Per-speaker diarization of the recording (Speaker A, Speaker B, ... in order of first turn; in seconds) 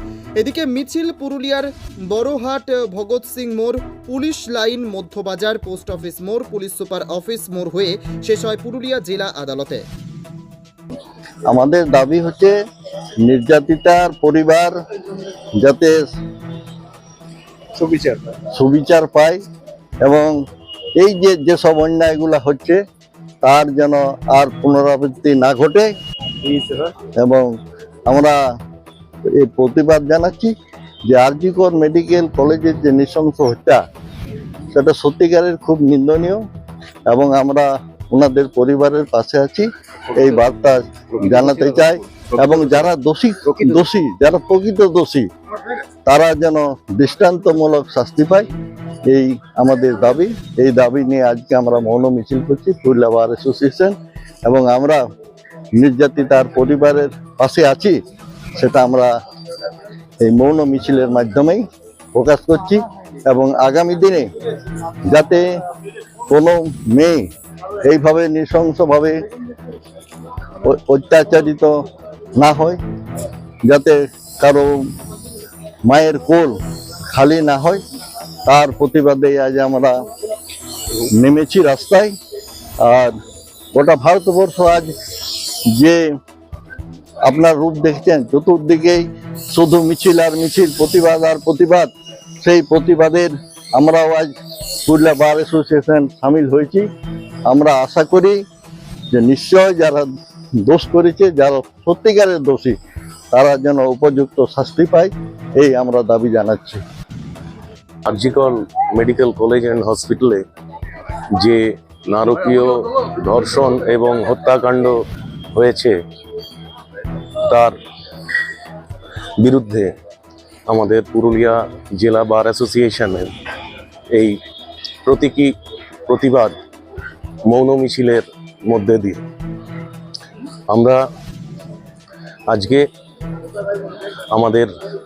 Speaker A: 0.4-9.8
Speaker B: 11.5-12.5, 13.2-14.7, 15.6-16.0, 18.5-19.4, 20.0-20.4, 21.0-22.8, 23.4-25.9, 27.2-27.5, 28.1-28.4, 29.3-30.5, 31.1-33.8, 34.7-36.4, 37.1-45.3, 46.0-48.5, 49.0-55.0, 55.8-58.0, 58.6-59.1, 60.2-61.6, 62.1-64.3, 65.1-65.5, 66.3-67.3, 67.8-69.2, 70.6-71.8, 72.4-72.8, 73.7-74.9, 75.9-76.6, 77.1-77.8, 78.5-80.0, 81.1-82.1, 82.8-83.2, 83.7-84.9, 85.7-86.0, 87.2-91.9, 92.4-94.3, 94.9-96.9, 97.5-98.4, 99.1-100.1, 100.6-102.8, 103.3-106.8
Speaker C: 17.8-18.4, 26.4-26.9, 40.1-40.5, 41.1-42.9, 43.5-43.8
Speaker D: 108.1-110.4, 111.4-115.0, 115.5-116.0, 117.5-117.8, 119.4-119.9, 120.7-123.3, 125.1-125.5, 126.1-126.5, 127.5-129.2, 130.7-131.0, 132.5-132.8, 134.3-134.7